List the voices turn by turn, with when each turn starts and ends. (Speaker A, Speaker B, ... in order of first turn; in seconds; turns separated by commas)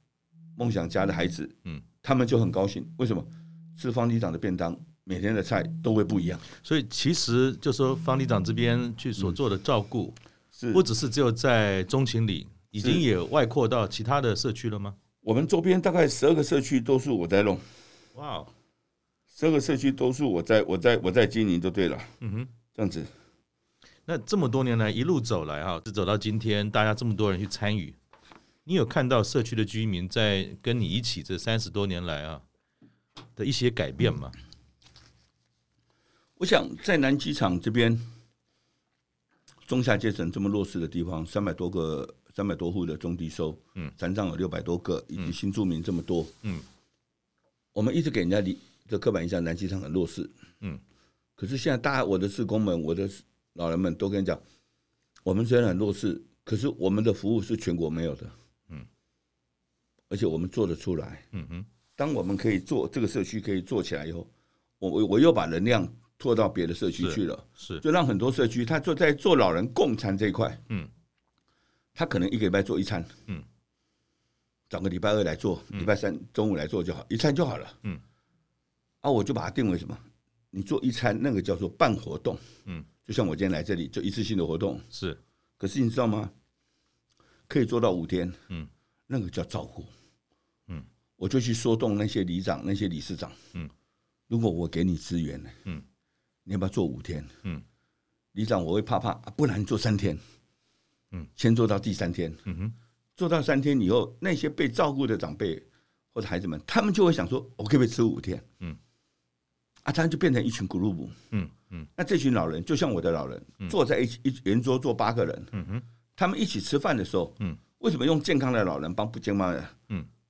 Speaker A: 0.6-6.5, Speaker B: 6.6-10.2, Speaker A: 10.6-10.9, Speaker B: 10.7-15.0, Speaker A: 12.8-13.0, Speaker A: 15.2-17.6, Speaker B: 18.1-18.5, Speaker A: 19.3-22.1, Speaker B: 22.2-22.5, Speaker A: 22.7-23.1, Speaker B: 24.1-28.0, Speaker B: 28.7-32.4, Speaker B: 33.4-34.4, Speaker A: 36.4-38.1, Speaker A: 39.7-46.3, Speaker A: 47.7-50.3, Speaker A: 51.4-54.4, Speaker A: 55.2-58.3, Speaker A: 60.1-61.3, Speaker B: 61.3-61.7, Speaker A: 62.0-70.6, Speaker B: 67.0-67.8, Speaker A: 72.0-73.2, Speaker A: 74.7-77.8, Speaker A: 79.0-82.5, Speaker A: 83.0-84.9, Speaker B: 84.9-85.2, Speaker A: 85.6-86.3, Speaker A: 87.5-88.4, Speaker A: 89.1-89.9, Speaker A: 91.2-93.4, Speaker A: 94.3-95.6, Speaker A: 96.5-97.3, Speaker A: 98.3-100.2, Speaker A: 101.4-102.5, Speaker B: 102.5-102.7, Speaker A: 103.2-108.5, Speaker A: 109.8-111.2, Speaker B: 111.3-111.9, Speaker A: 112.0-115.6, Speaker B: 115.5-115.8, Speaker A: 116.2-119.8